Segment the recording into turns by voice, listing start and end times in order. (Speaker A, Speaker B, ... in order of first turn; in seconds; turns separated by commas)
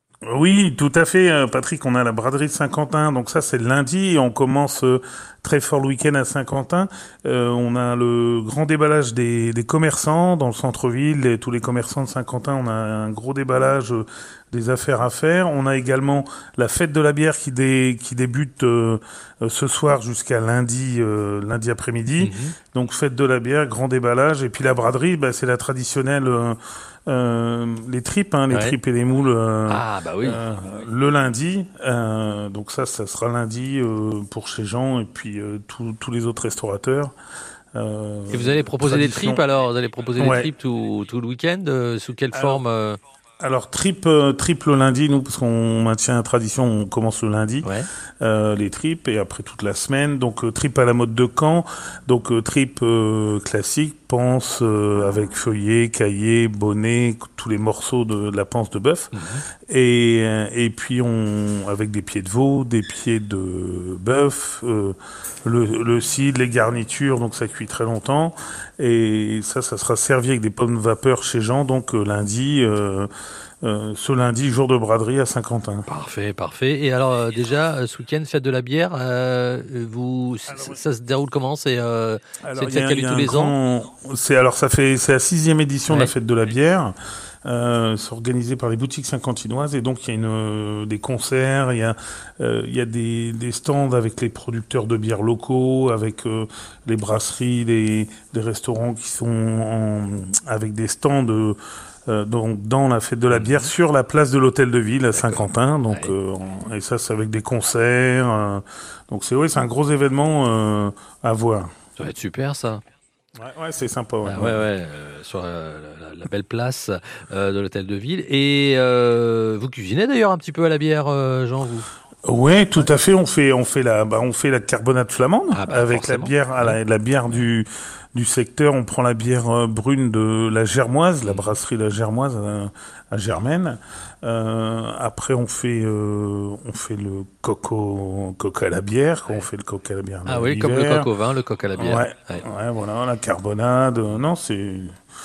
Speaker A: 0.2-37.1, Speaker B: 22.2-22.6, Speaker B: 28.5-28.8, Speaker B: 29.7-30.4, Speaker A: 37.7-39.4, Speaker B: 38.3-43.0, Speaker A: 40.2-40.5, Speaker A: 42.3-42.6, Speaker A: 43.4-47.7, Speaker B: 47.6-47.9, Speaker A: 48.2-73.1, Speaker B: 59.1-59.4, Speaker A: 73.6-75.9, Speaker B: 75.9-83.5, Speaker A: 80.5-80.8, Speaker A: 82.4-86.9, Speaker A: 87.4-111.7, Speaker B: 103.3-103.7, Speaker B: 105.1-106.1, Speaker B: 112.0-112.8, Speaker A: 113.3-114.6, Speaker B: 114.2-121.9, Speaker A: 122.2-141.1, Speaker B: 125.5-126.8, Speaker B: 131.2-131.6, Speaker B: 140.2-142.4, Speaker A: 141.8-145.0